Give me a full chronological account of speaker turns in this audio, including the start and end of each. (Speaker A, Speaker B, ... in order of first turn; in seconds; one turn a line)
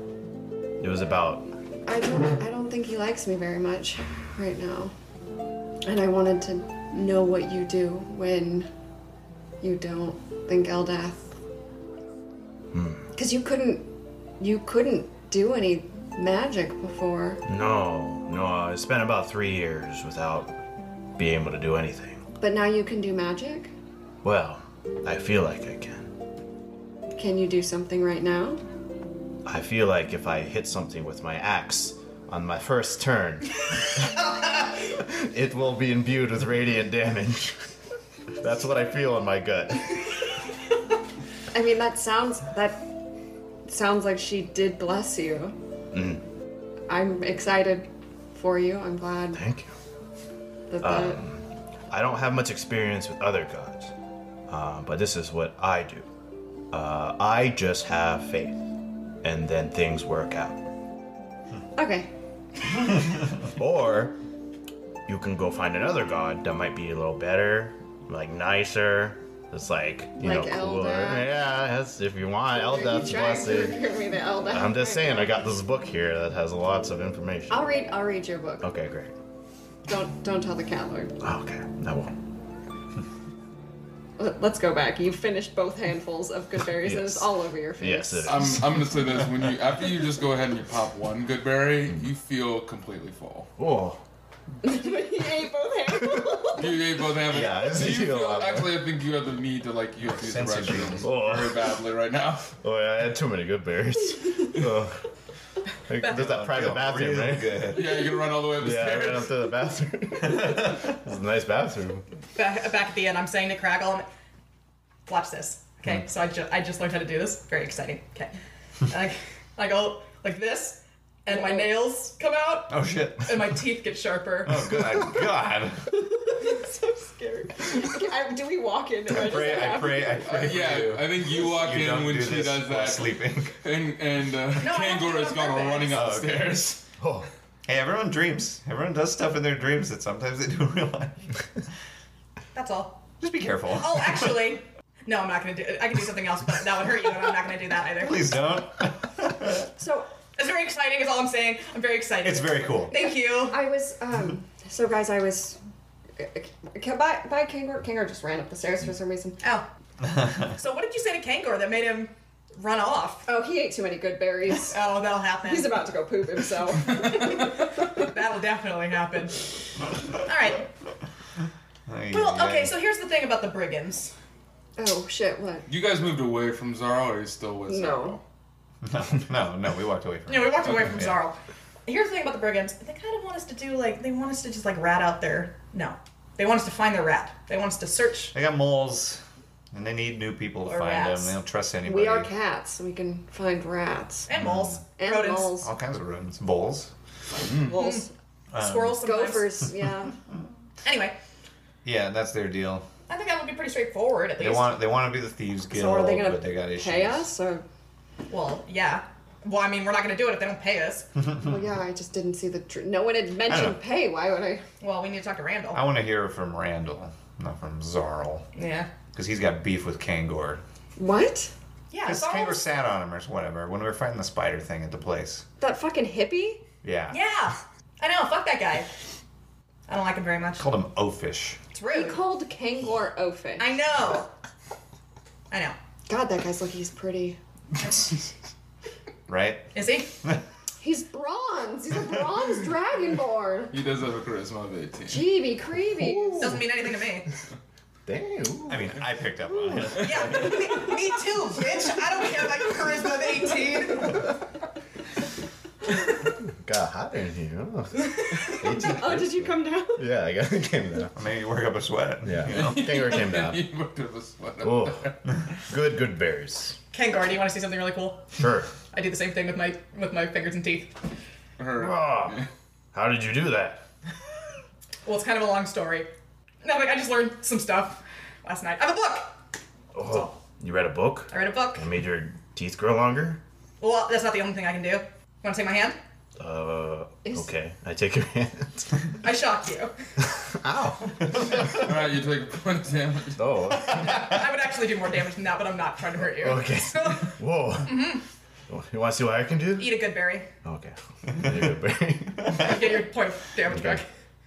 Speaker A: 0.8-1.5
Speaker B: 1.9-4.9
Speaker B: 5.8-8.7
Speaker B: 9.6-11.4
Speaker A: 12.7-13.1
Speaker B: 13.2-17.4
Speaker A: 17.5-20.5
Speaker A: 21.2-22.2
Speaker B: 22.4-23.7
Speaker A: 24.2-26.1
Speaker B: 27.1-28.6
Speaker A: 29.5-37.6
Speaker A: 38.4-40.1
Speaker B: 41.5-43.0
Speaker B: 43.7-45.6
Speaker A: 45.9-46.2
Speaker B: 46.9-49.4
Speaker A: 49.3-49.7
Speaker B: 50.7-51.2
Speaker A: 50.8-53.9
Speaker A: 54.5-56.1
Speaker A: 56.7-58.6
Speaker A: 59.2-60.7
Speaker B: 61.8-62.1
Speaker A: 63.3-64.2
Speaker A: 65.1-73.8
Speaker B: 70.2-71.3
Speaker B: 72.5-75.4
Speaker A: 74.5-77.7
Speaker B: 77.5-78.7
Speaker A: 78.6-79.1
Speaker B: 79.9-81.2
Speaker A: 81.2-82.1
Speaker B: 84.2-88.6
Speaker A: 86.7-89.1
Speaker C: 88.3-93.5
Speaker A: 93.6-94.0
Speaker B: 94.6-96.7
Speaker A: 96.1-96.5
Speaker C: 96.5-102.6
Speaker A: 97.2-98.8
Speaker D: 100.1-101.1
Speaker A: 101.0-101.7
Speaker A: 102.6-105.0
Speaker A: 105.9-107.8
Speaker D: 106.0-107.9
Speaker C: 107.7-109.3
Speaker A: 108.6-112.0
Speaker E: 112.3-114.1
Speaker E: 115.1-118.3
Speaker E: 118.9-124.8
Speaker B: 121.3-121.8
Speaker D: 122.7-123.6
Speaker D: 124.5-126.0
Speaker B: 125.9-130.5
Speaker D: 129.1-133.6
Speaker C: 130.2-136.9
Speaker E: 134.6-136.2
Speaker D: 135.9-136.6
Speaker A: 137.0-137.3
Speaker D: 137.7-141.3
Speaker E: 142.5-143.0
Speaker D: 143.2-144.3
Speaker E: 143.7-148.2
Speaker D: 148.0-149.7
Speaker B: 149.8-150.1
Speaker E: 150.4-153.6
Speaker D: 152.2-152.9
Speaker B: 152.9-155.6
Speaker B: 156.2-159.4
Speaker E: 159.4-159.7
Speaker E: 160.4-163.3
Speaker B: 163.3-167.6
Speaker E: 164.6-165.8
Speaker E: 166.9-169.4
Speaker E: 170.2-170.7
Speaker D: 171.9-172.7
Speaker E: 172.1-174.1
Speaker B: 174.8-175.7
Speaker C: 175.7-178.2
Speaker B: 177.7-178.2
Speaker D: 178.8-181.2
Speaker E: 180.3-188.3
Speaker D: 188.3-192.3
Speaker E: 190.7-191.4
Speaker B: 191.9-194.3
Speaker E: 194.3-195.6
Speaker B: 195.0-195.7
Speaker D: 195.6-196.9
Speaker B: 197.5-198.1
Speaker E: 197.7-198.1
Speaker D: 198.5-199.0
Speaker E: 198.6-199.6
Speaker B: 199.0-200.2
Speaker E: 200.8-201.2
Speaker D: 201.8-202.9
Speaker E: 203.1-204.9
Speaker D: 204.4-207.3
Speaker B: 205.7-207.6
Speaker E: 208.3-211.1
Speaker B: 211.4-214.6
Speaker D: 213.5-213.8
Speaker E: 214.8-215.8
Speaker D: 215.7-218.5
Speaker E: 218.6-218.9
Speaker D: 219.1-220.6
Speaker B: 221.0-221.5
Speaker E: 221.9-222.7
Speaker D: 222.0-225.4
Speaker B: 225.6-226.6
Speaker D: 226.8-227.2
Speaker E: 227.1-228.9
Speaker E: 229.9-230.7
Speaker D: 230.6-231.6
Speaker E: 231.7-232.2
Speaker B: 231.9-233.8
Speaker E: 233.6-234.3
Speaker E: 235.5-235.8
Speaker B: 236.1-237.4
Speaker D: 239.3-239.7
Speaker E: 239.7-240.2
Speaker B: 240.8-243.8
Speaker C: 243.7-245.3
Speaker B: 245.1-246.6
Speaker A: 246.0-246.6
Speaker E: 246.4-247.3
Speaker A: 248.1-248.9
Speaker D: 248.7-250.7
Speaker E: 250.0-254.3
Speaker A: 256.5-261.1
Speaker B: 258.2-260.1
Speaker D: 261.1-263.0
Speaker A: 262.2-263.6
Speaker C: 262.5-265.2
Speaker A: 264.6-265.1
Speaker A: 265.7-266.8
Speaker E: 266.9-268.3
Speaker A: 268.4-268.7
Speaker E: 268.9-270.9
Speaker C: 271.6-272.5
Speaker A: 271.8-273.9
Speaker E: 275.1-276.1
Speaker E: 276.6-279.4
Speaker A: 279.9-283.4
Speaker E: 280.1-280.3
Speaker E: 281.3-281.9
Speaker E: 283.8-286.0
Speaker A: 286.4-289.1
Speaker E: 289.2-289.9
Speaker A: 290.2-291.8
Speaker C: 291.5-293.5
Speaker A: 293.4-294.4
Speaker E: 293.9-298.2
Speaker A: 296.3-299.9
Speaker E: 299.8-300.5
Speaker A: 300.6-302.7
Speaker E: 302.4-304.1
Speaker A: 303.7-304.0